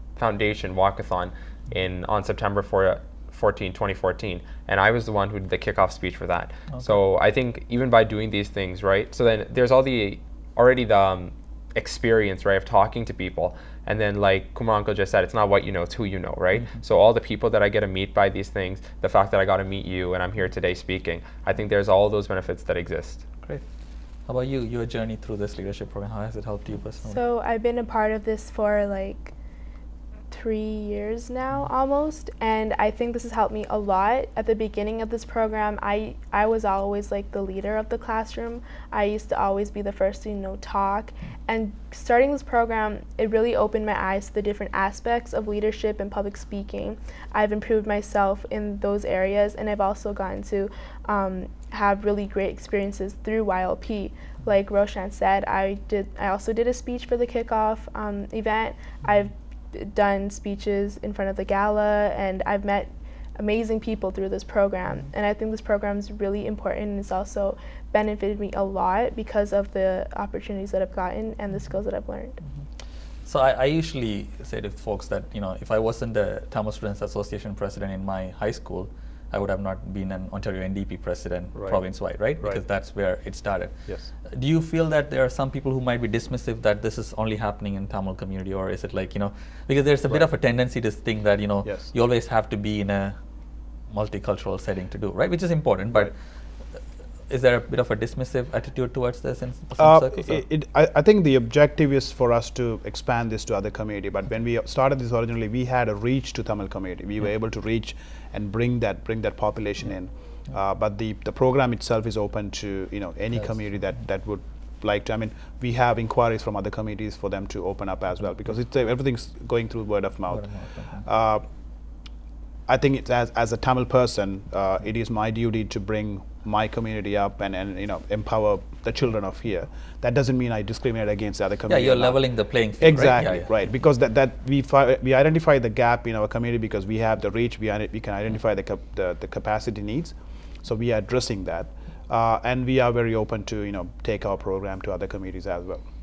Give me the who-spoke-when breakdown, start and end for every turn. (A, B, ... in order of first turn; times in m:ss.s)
0:00.2-0:23.2 A
0:24.3-0:27.2 B
0:27.0-0:29.3 C
0:30.3-1:12.4 C
1:13.2-1:33.2 B
1:21.6-1:21.8 D
1:31.6-1:31.9 D
1:33.9-1:36.2 B
1:37.3-1:40.4 B
1:39.8-2:01.5 D
2:00.3-2:01.0 B
2:02.7-2:25.8 D
2:11.7-2:13.5 B